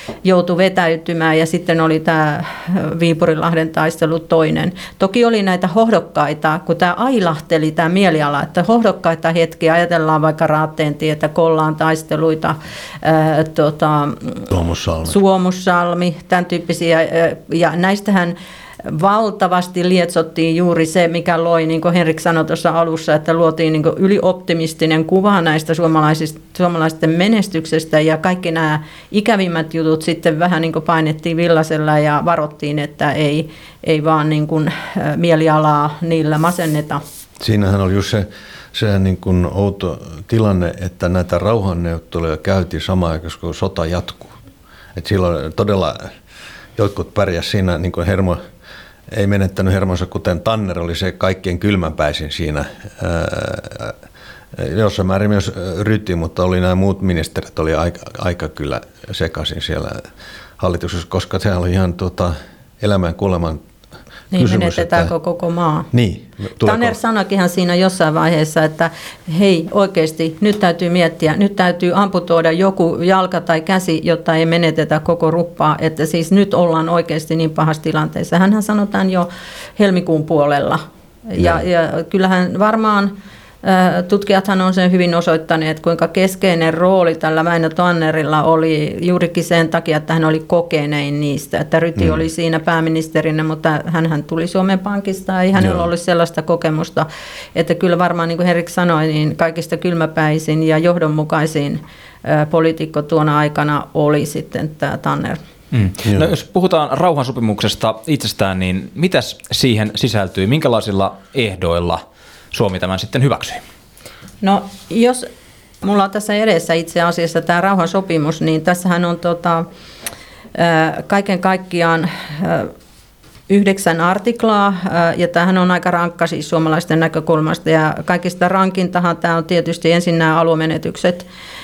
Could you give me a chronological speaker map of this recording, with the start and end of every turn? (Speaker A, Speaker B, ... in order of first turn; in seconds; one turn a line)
Speaker A: 0.2-14.5
Speaker B: 14.5-15.2
Speaker A: 15.1-37.0
Speaker B: 37.4-44.4
Speaker B: 45.0-46.1
Speaker B: 46.8-48.4
Speaker B: 49.1-54.0
Speaker B: 54.5-60.0
Speaker B: 60.6-63.6
Speaker A: 64.3-65.9
Speaker B: 64.3-65.1
Speaker B: 65.9-67.0
Speaker A: 66.6-105.4
Speaker B: 95.6-95.8
Speaker C: 105.7-113.6
Speaker B: 106.0-106.3
Speaker A: 114.4-115.3
Speaker A: 115.8-119.7
Speaker A: 120.5-122.7
Speaker A: 123.5-131.3